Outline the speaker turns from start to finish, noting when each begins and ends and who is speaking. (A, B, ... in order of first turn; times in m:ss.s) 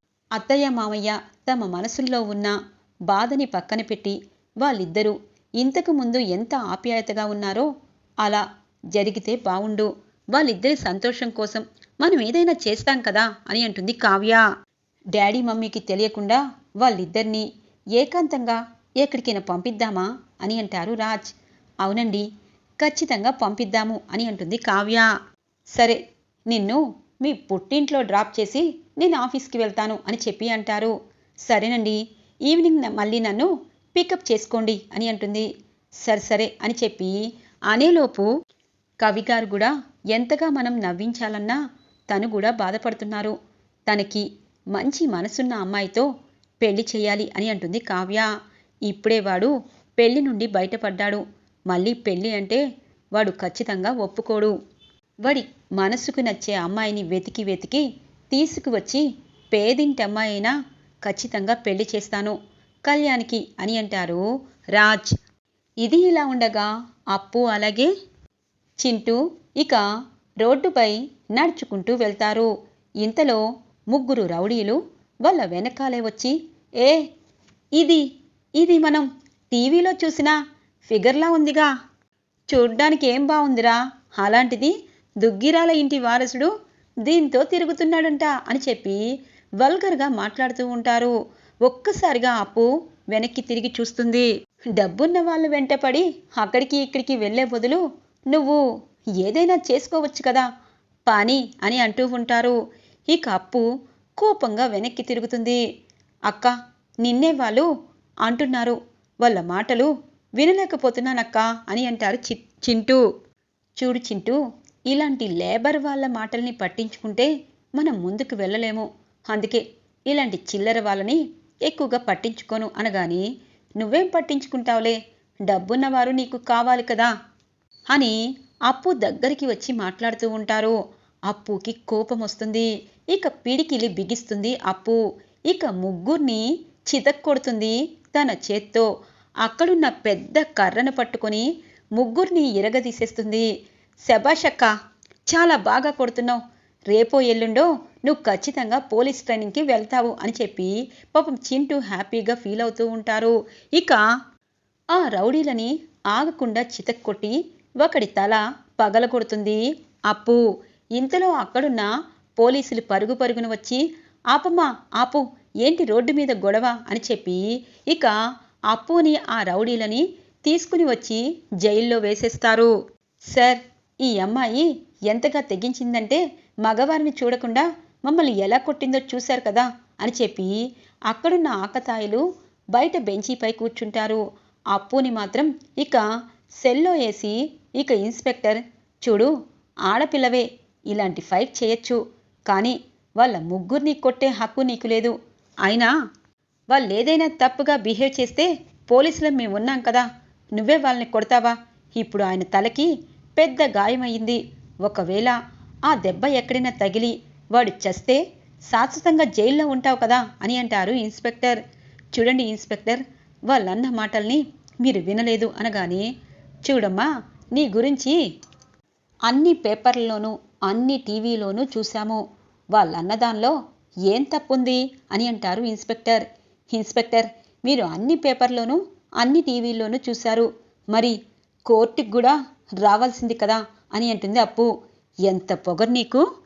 0:00.4-0:02.5 A
0:03.1-0:07.7 A
0:08.2-0:14.4 A
0:15.1-0:22.2 A
0:22.8-0:25.1 A
0:25.7-0:26.0 A
0:26.5-0:30.9 A
0:31.5-0:35.5 A
0:36.0-0:37.2 A
0:37.7-0:38.3 A
0:39.0-0:41.6 A
0:42.1-0:43.3 A
0:43.9-0:46.1 A
0:46.6-0:48.3 A
0:48.8-0:52.6 A
0:53.2-0:54.5 A
0:55.2-1:00.5 A
1:01.0-1:02.4 A
1:02.9-1:04.2 A
1:04.7-1:05.1 A
1:05.8-1:07.9 A
1:08.8-1:09.8 A
1:10.4-1:12.5 A
1:13.0-1:17.0 A
1:17.8-1:18.0 A
1:18.6-1:20.4 A
1:20.9-1:21.7 A
1:22.5-1:26.5 A
1:27.0-1:29.0 A
1:29.6-1:38.6 A
1:39.2-1:40.5 A
1:41.1-1:42.5 A
1:43.1-1:43.6 A
1:44.2-1:45.6 A
1:46.3-1:47.7 A
1:48.2-1:53.0 A
1:53.8-2:03.2 A
2:03.8-2:07.1 A
2:07.9-2:10.8 A
2:11.3-2:15.0 A
2:15.5-2:18.9 A
2:19.4-2:23.5 A
2:24.0-2:24.7 A
2:25.3-2:26.4 A
2:26.9-2:34.0 A
2:34.9-2:40.4 A
2:41.0-2:48.1 A
2:48.7-2:52.7 A
2:53.3-3:00.6 A
3:01.1-3:04.2 A
3:04.7-3:06.0 A
3:06.6-3:09.3 A
3:09.8-3:15.9 A
3:16.7-3:31.6 A
3:32.1-3:36.1 A
3:36.6-3:38.2 A
3:39.3-3:42.2 A
3:42.7-3:43.6 A
3:44.1-3:51.2 A
3:51.7-3:54.7 A
3:55.2-3:56.2 A